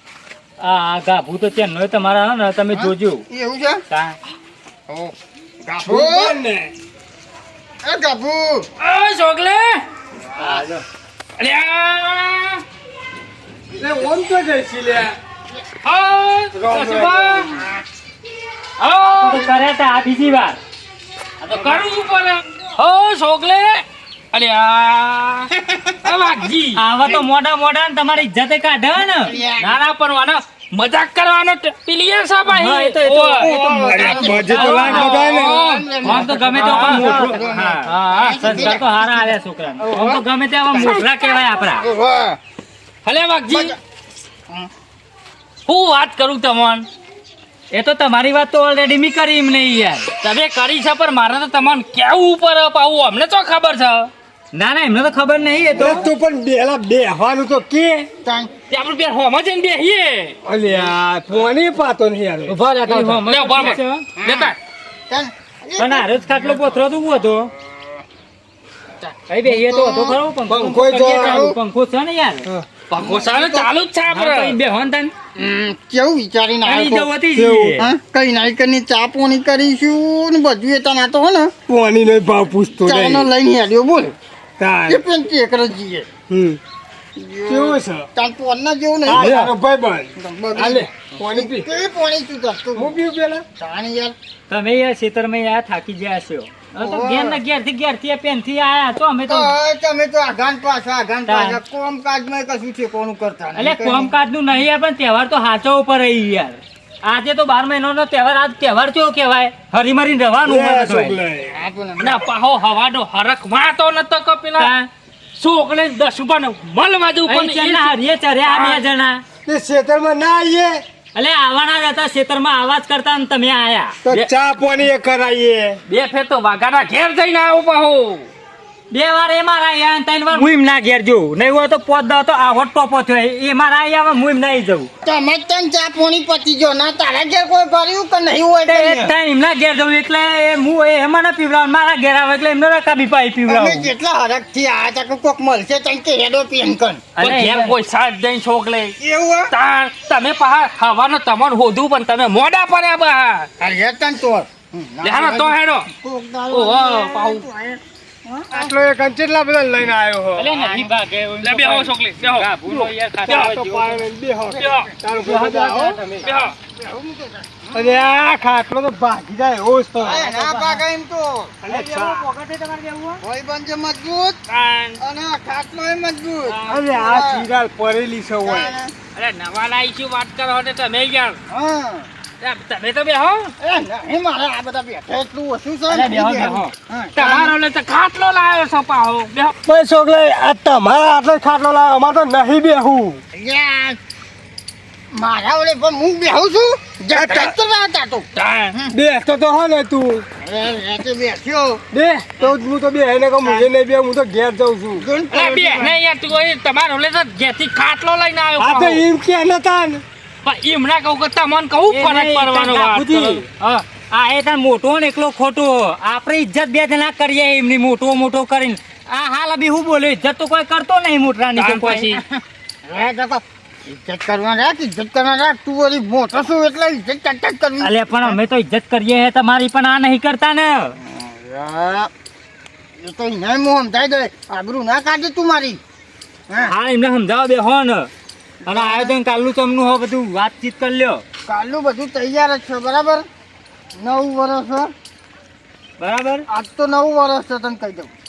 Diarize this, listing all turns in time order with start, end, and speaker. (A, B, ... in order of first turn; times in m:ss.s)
0:00.6-0:03.2 A
0:02.7-0:03.8 B
0:03.9-0:04.1 A
0:04.9-0:06.4 B
0:05.9-0:06.7 C
0:07.8-0:08.7 B
0:08.8-0:09.8 D
0:10.4-0:10.7 B
0:10.4-0:10.8 A
0:11.4-0:12.6 D
0:13.8-0:15.2 C
0:15.8-0:17.5 D
0:16.5-0:17.5 C
0:17.5-0:17.8 B
0:18.8-0:19.4 D
0:19.2-0:20.6 A
0:21.4-0:25.5 D
0:21.5-0:21.8 B
0:25.6-0:26.1 B
0:26.0-0:26.8 D
0:26.8-0:29.3 A
0:29.1-0:29.8 B
0:29.6-0:33.5 D
0:32.5-0:35.2 A
0:33.4-0:39.4 B
0:33.8-0:35.6 C
0:34.5-0:38.8 D
0:36.0-0:41.8 A
0:39.8-0:41.0 D
0:40.8-0:41.0 B
0:41.8-0:42.4 B
0:43.0-0:43.7 D
0:43.5-0:43.8 B
0:45.7-0:46.9 D
0:47.7-0:50.1 A
0:50.2-0:54.1 D
0:54.5-0:56.1 A
0:55.7-0:58.1 C
0:58.2-0:58.5 B
0:58.7-1:00.4 D
1:00.4-1:02.6 C
1:02.8-1:03.9 A
1:03.2-1:04.6 D
1:04.2-1:04.5 B
1:05.1-1:06.8 B
1:05.8-1:07.5 A
1:09.0-1:10.2 B
1:09.3-1:12.5 A
1:10.5-1:11.5 C
1:11.0-1:11.6 B
1:12.9-1:13.7 B
1:12.9-1:14.6 D
1:14.1-1:15.1 A
1:15.4-1:17.1 B
1:16.6-1:17.9 A
1:17.3-1:17.8 C
1:17.8-1:21.5 B
1:21.7-1:23.3 C
1:22.8-1:24.1 B
1:24.6-1:25.0 C
1:24.9-1:26.1 B
1:26.3-1:26.6 C
1:27.2-1:29.5 B
1:27.4-1:28.1 C
1:29.0-1:31.7 C
1:29.1-1:29.4 A
1:30.2-1:32.9 B
1:32.8-1:33.4 C
1:33.6-1:34.1 B
1:34.5-1:39.5 A
1:36.8-1:37.4 B
1:39.3-1:44.1 B
1:41.3-1:41.6 A
1:43.6-1:51.2 A
1:50.4-1:51.5 C
1:51.5-1:52.2 B
1:52.0-1:54.7 D
1:54.6-1:54.8 A
1:55.4-1:58.8 D
1:57.2-1:59.2 A
1:59.4-2:00.8 C
2:01.1-2:04.0 A
2:04.0-2:05.8 C
2:05.9-2:08.3 D
2:08.9-2:14.9 A
2:15.0-2:19.1 B
2:18.6-2:23.9 A
2:23.5-2:27.0 B
2:27.2-2:27.7 A
2:27.2-2:28.9 D
2:29.0-2:29.5 B
2:29.5-2:33.5 D
2:33.6-2:38.7 B
2:35.0-2:35.9 D
2:36.5-2:37.4 D
2:38.5-2:40.5 C
2:40.4-2:44.0 A
2:40.5-2:40.9 B
2:41.4-2:42.5 D
2:42.7-2:46.0 C
2:43.3-2:43.6 D
2:44.5-2:44.9 D
2:44.6-2:44.9 B
2:45.2-2:46.2 A
2:46.2-2:46.5 D
2:46.2-2:48.0 B
2:47.7-2:50.2 C
2:50.0-2:51.6 B
2:50.0-2:50.8 A
2:51.6-2:53.2 A
2:51.6-2:52.3 C
2:53.2-2:54.4 B
2:54.5-2:55.0 D
2:55.0-2:57.5 B
2:56.7-2:58.7 C
2:58.4-2:58.9 B
2:59.1-3:01.4 D
3:01.5-3:02.1 B
3:02.4-3:03.5 D
3:03.6-3:07.5 B
3:05.9-3:09.5 D
3:09.6-3:13.2 C
3:13.3-3:14.0 B
3:15.1-3:18.9 B
3:17.1-3:17.5 C
3:18.3-3:18.7 D
3:18.9-3:20.2 C
3:20.4-3:21.8 B
3:21.9-3:25.0 C
3:25.0-3:25.9 B
3:25.3-3:29.0 D
3:28.6-3:30.0 C
3:30.4-3:33.8 D
3:31.9-3:33.4 A
3:34.1-3:42.2 A
3:41.6-3:42.2 D
3:42.3-3:48.4 B
3:47.8-3:51.0 A
3:51.0-3:52.1 B
3:53.0-3:55.8 B
3:56.6-3:58.1 A
3:58.6-3:59.2 B
3:58.7-4:01.2 A
4:01.5-4:03.2 B
4:04.0-4:04.9 B
4:06.0-4:06.4 A
4:06.5-4:08.1 B